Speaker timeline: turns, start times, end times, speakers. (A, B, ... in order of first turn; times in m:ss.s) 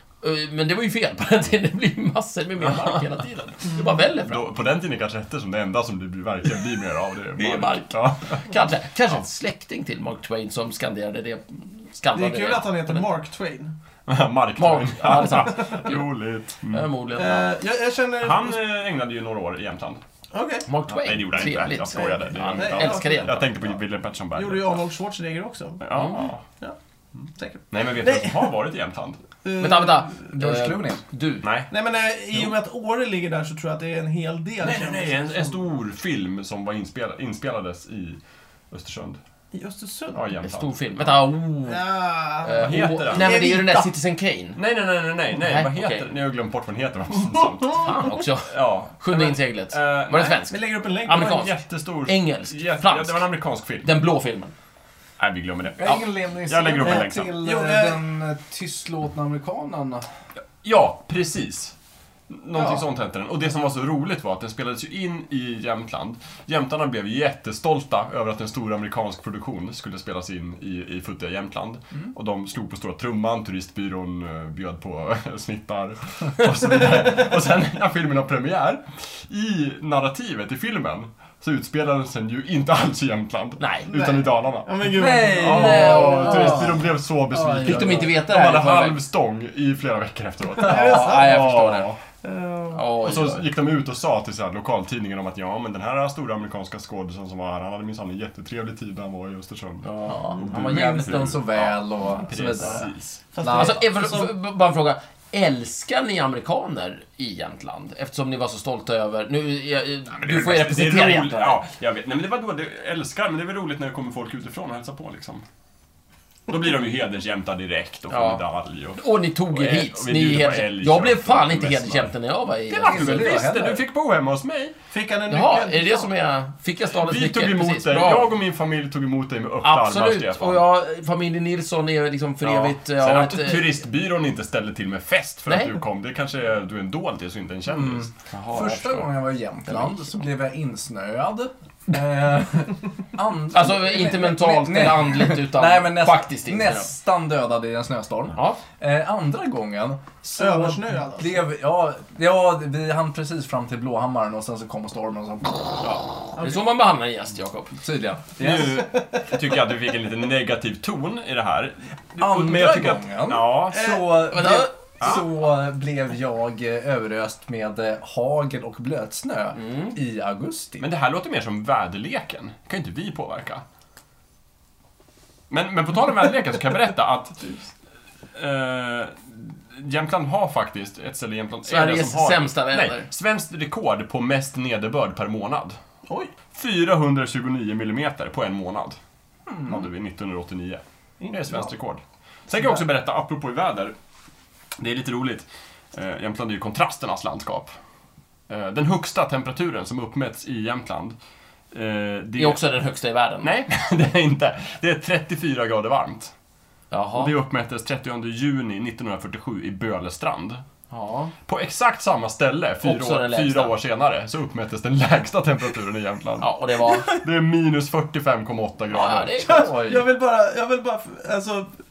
0:00.2-0:04.5 A
0:04.2-0:08.5 B
0:07.4-0:13.0 A
0:12.1-0:13.7 C
0:14.1-0:16.9 B
0:14.6-0:16.0 A
0:16.7-0:17.5 A
0:17.1-0:18.6 C
0:18.2-0:20.0 B
0:20.3-0:20.7 C
0:20.7-0:23.4 A
0:20.9-0:24.8 B
0:21.9-0:23.5 C
0:24.4-0:25.8 C
0:25.8-0:26.4 B
0:25.9-0:26.2 A
0:27.4-0:28.5 C
0:27.7-0:29.2 B
0:29.4-0:30.2 C
0:29.6-0:31.5 A
0:30.3-0:31.0 D
0:31.4-0:31.7 B
0:31.7-0:35.6 C
0:34.6-0:38.2 B
0:38.7-0:39.2 B
0:39.5-0:40.3 C
0:40.1-0:41.3 B
0:40.4-0:44.6 A
0:41.7-0:43.9 C
0:42.6-0:43.5 B
0:44.6-0:50.4 B
0:45.4-0:46.1 A
0:47.8-0:51.6 A
0:50.5-0:51.4 C
0:51.1-0:54.0 B
0:52.1-0:53.2 A
0:53.8-0:54.5 A
0:55.2-0:57.3 B
0:55.8-1:00.0 D
0:56.8-0:58.0 C
1:00.6-1:01.8 B
1:02.3-1:32.0 B
1:02.6-1:02.8 D
1:23.6-1:24.2 A
1:24.7-1:26.6 C
1:24.9-1:28.1 D
1:25.4-1:26.6 A
1:27.6-1:29.0 A
1:30.6-1:31.4 C
1:30.6-1:31.9 A
1:32.2-1:32.9 C
1:32.7-1:33.5 A
1:33.0-1:43.2 B
1:39.9-1:41.5 A
1:40.1-1:42.9 D
1:43.3-1:44.3 C
1:43.4-1:43.8 D
1:43.5-1:51.6 A
1:50.2-1:55.4 B
1:56.5-2:02.1 B
1:58.1-1:58.4 A
1:59.0-2:03.4 A
2:02.7-2:04.8 B
2:02.8-2:03.8 D
2:04.9-2:06.1 C
2:05.3-2:08.3 A
2:07.0-2:10.6 B
2:09.6-2:13.8 A
2:12.4-2:18.1 B
2:15.5-2:15.8 A
2:17.8-2:36.0 D
2:18.3-2:19.1 A
2:23.5-2:26.9 A
2:28.3-2:28.6 A
2:30.4-2:31.4 C
2:35.8-2:37.7 A
2:36.4-2:36.6 C
2:37.8-2:38.9 D
2:38.4-2:44.0 B
2:42.2-2:50.8 D
2:43.7-2:44.4 C
2:44.3-2:44.7 A
2:45.0-2:45.3 B
2:49.6-2:50.0 A
2:50.8-2:53.6 B
2:55.5-2:57.5 B
2:58.4-3:05.8 B
3:01.7-3:03.1 A
3:06.1-3:06.3 C
3:06.5-3:09.0 B
3:09.5-3:09.8 D
3:09.6-3:14.0 B
3:11.2-3:11.7 C
3:14.8-3:17.7 B
3:18.5-3:21.2 B
3:21.7-3:22.6 B
3:22.4-3:23.5 A
3:23.4-3:26.3 B
3:26.9-3:27.3 A
3:27.2-3:30.6 B
3:30.9-3:31.3 A
3:31.5-3:36.6 B
3:32.8-3:33.8 A
3:36.4-3:37.1 A
3:36.9-3:37.2 C
3:37.1-3:39.6 B
3:38.9-3:39.9 A
3:39.4-3:41.7 C
3:39.5-3:40.0 D